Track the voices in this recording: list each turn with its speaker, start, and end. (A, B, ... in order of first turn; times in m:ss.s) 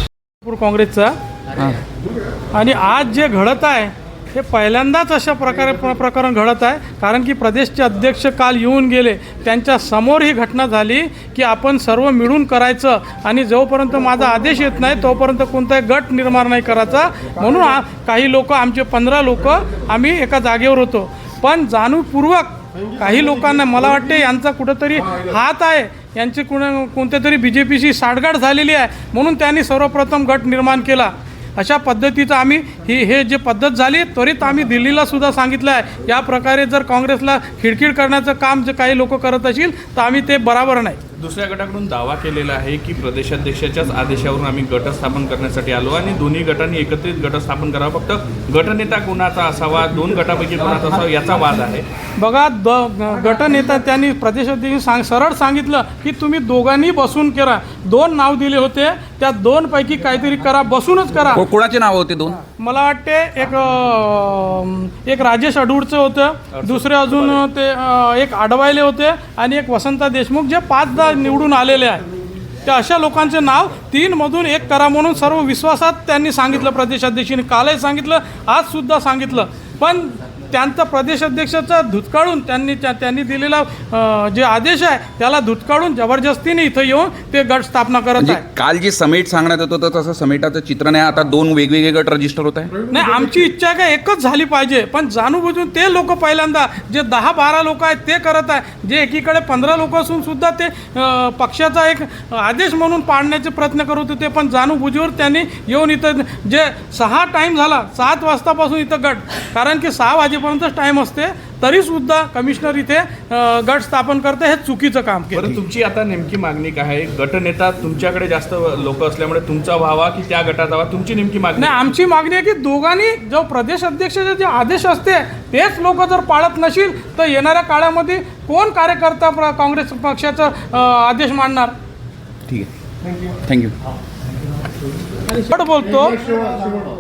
0:00.4-0:01.2 A
0:02.5-0:41.0 A
0:41.2-0:51.9 B
0:52.2-1:01.4 A
1:01.3-1:02.4 C
1:02.6-1:12.0 A
1:06.5-1:07.4 B
1:12.6-1:28.4 A
1:28.2-1:32.8 C
1:32.9-1:55.5 A
1:55.3-2:01.9 B
2:01.6-2:11.7 A
2:13.4-2:13.7 C
2:15.3-2:16.2 A